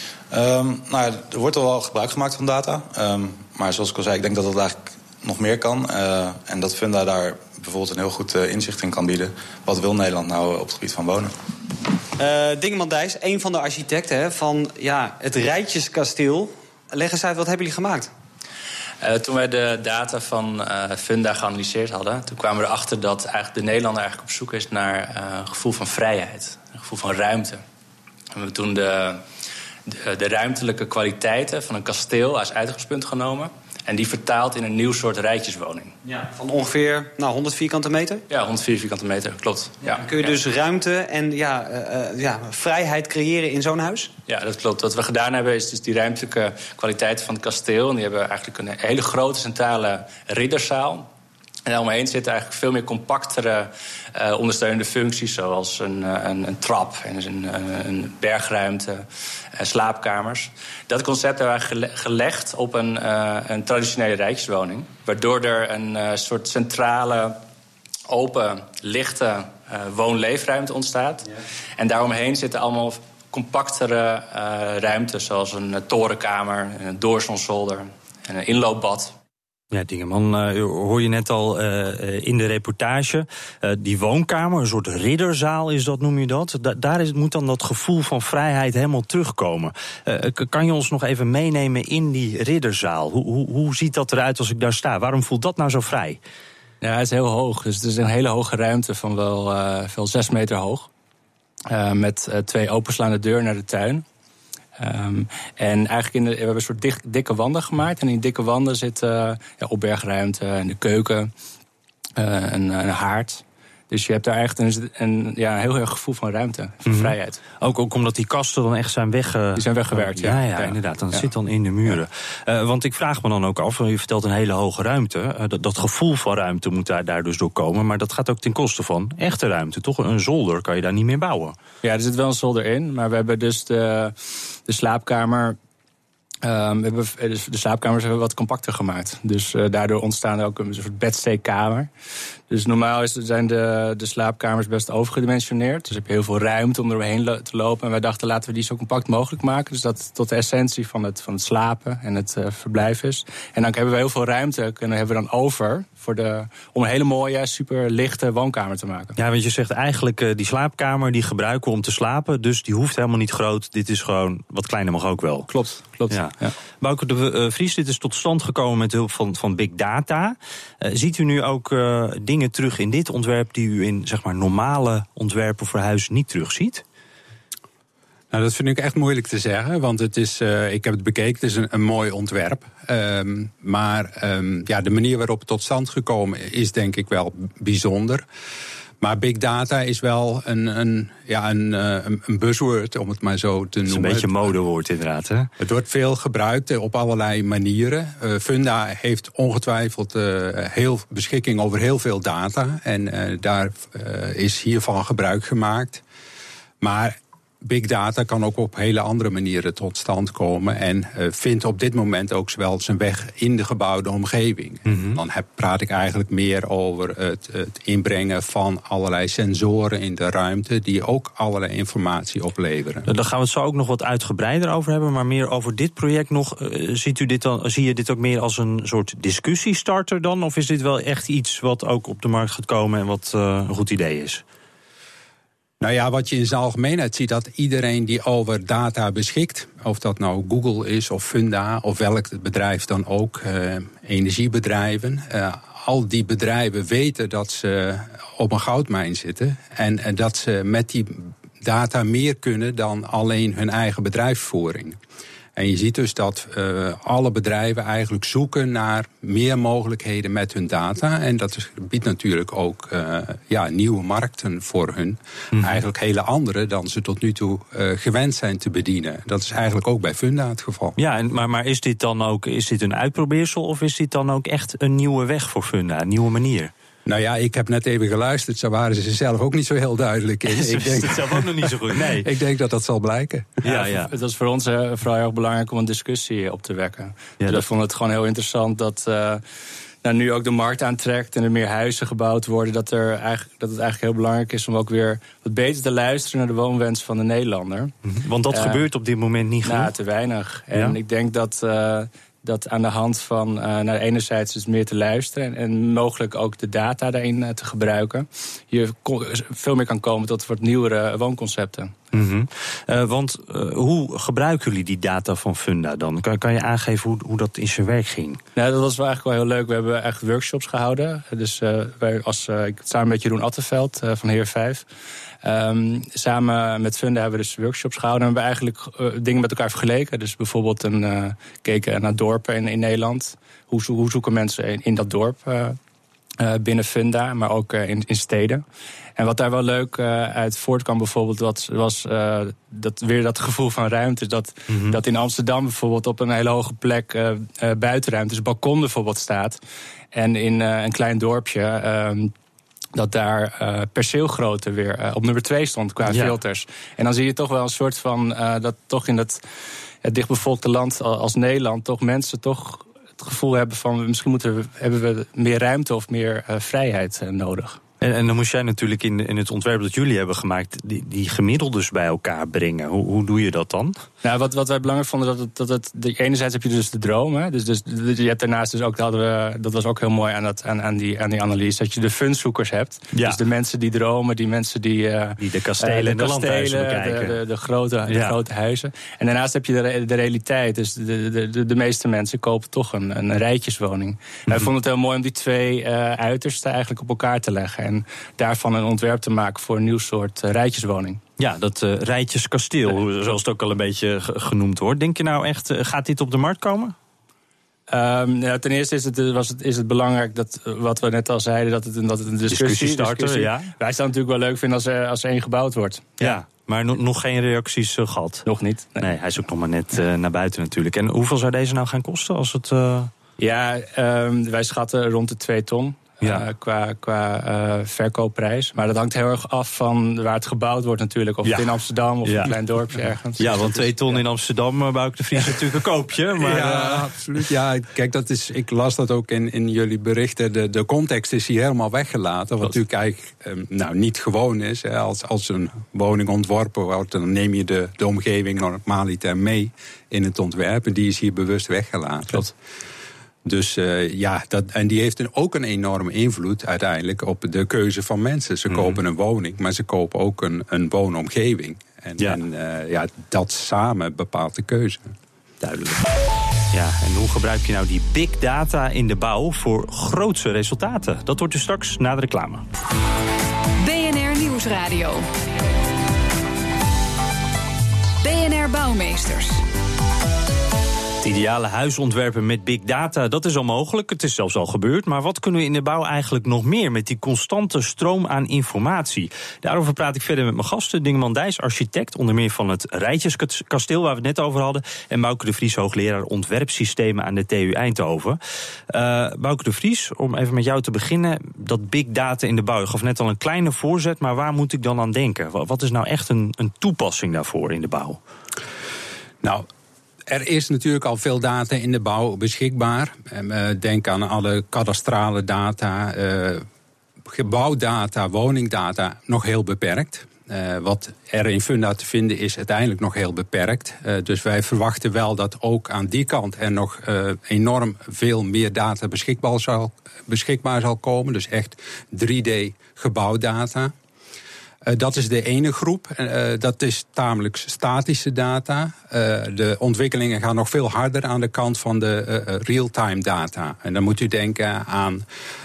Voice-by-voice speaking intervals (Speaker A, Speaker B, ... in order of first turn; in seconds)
Speaker A: 0.3-11.3
Speaker B: 12.2-18.1, 36.0-38.2, 39.9-44.1
Speaker C: 19.0-27.6, 28.3-29.2, 29.9-35.9, 38.3-40.0, 44.3-51.1, 51.6-67.4, 68.1-79.1, 96.8-100.9, 101.7-104.0, 104.8-111.3, 112.2-117.4, 119.5-121.3, 131.8-134.1, 134.7-135.6, 136.4-141.9, 142.5-159.1, 165.5-166.5, 283.6-289.4, 290.0-297.9, 298.5-298.8, 299.6-312.1, 318.6-324.8, 325.4-335.8, 336.4-338.6, 339.2-349.6, 350.1-352.3, 352.9-359.4, 360.0-367.8, 374.2-401.2, 407.9-416.4, 418.4-419.1, 423.4-434.2
Speaker D: 79.7-96.2, 116.9-131.6, 159.2-165.5, 166.1-176.8, 193.9-195.5, 214.9-215.2, 223.1-234.4, 265.5-265.8, 271.0-276.7, 280.5-282.3, 283.6-284.1, 287.4-287.7, 298.0-299.9, 312.1-318.4, 344.7-345.0, 356.1-356.4, 368.0-374.0, 383.1-383.4, 385.4-387.4, 388.1-388.3, 401.4-406.9, 412.5-413.7, 416.2-418.4, 419.0-423.1, 431.4-431.7, 432.2-432.5, 433.4-437.1, 458.7-459.0, 465.6-466.1, 466.7-472.6, 481.2-498.4, 498.9-508.2
Speaker E: 178.3-188.2, 189.0-194.5, 195.6-206.0, 206.8-223.1, 235.8-255.0, 255.6-271.0, 277.1-283.6, 436.3-452.5, 453.4-465.1, 510.3-516.6, 517.3-533.9, 534.8-545.2
Speaker F: 473.8-475.3, 478.2-479.6